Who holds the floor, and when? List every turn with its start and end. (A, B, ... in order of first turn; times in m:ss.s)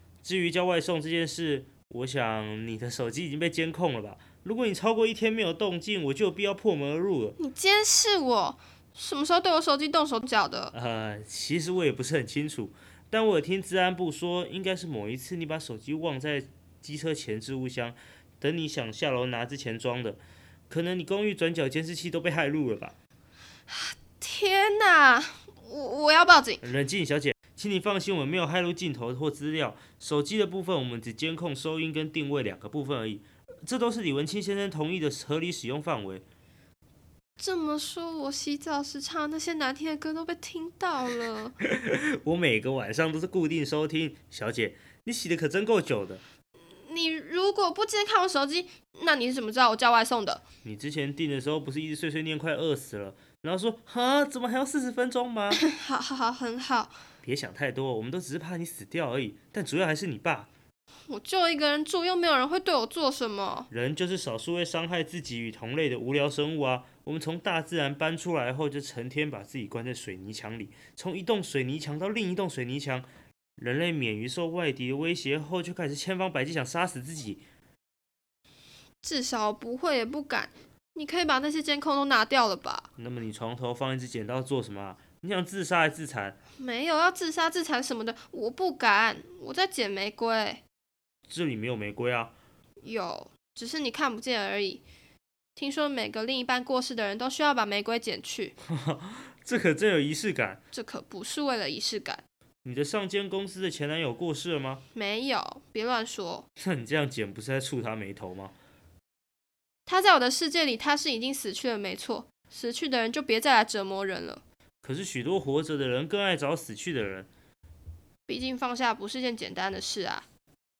0:00.2-0:07.4 A
0:07.4-0:10.7 B
0:10.7-0:23.0 A
0:23.7-0:26.6 B
0:26.6-0:36.2 A
0:37.4-0:41.6 B
0:41.6-0:46.2 A
0:46.7-0:50.4 B
0:50.6-0:55.6 A
0:55.5-0:56.9 B
0:57.2-1:00.5 A
1:01.1-1:03.7 B
1:03.7-1:17.4 A
1:19.0-1:22.9 B
1:23.0-1:26.4 A
1:26.6-1:30.6 B
1:31.3-1:32.3 A
1:32.8-1:34.8 B
1:35.6-1:38.6 B
1:38.7-1:40.6 A
1:40.7-1:42.2 B
1:42.6-1:44.8 A
1:44.9-1:46.5 B
1:46.6-1:48.5 A
1:49.9-1:54.4 B
1:54.8-1:57.3 A
1:58.3-2:00.2 B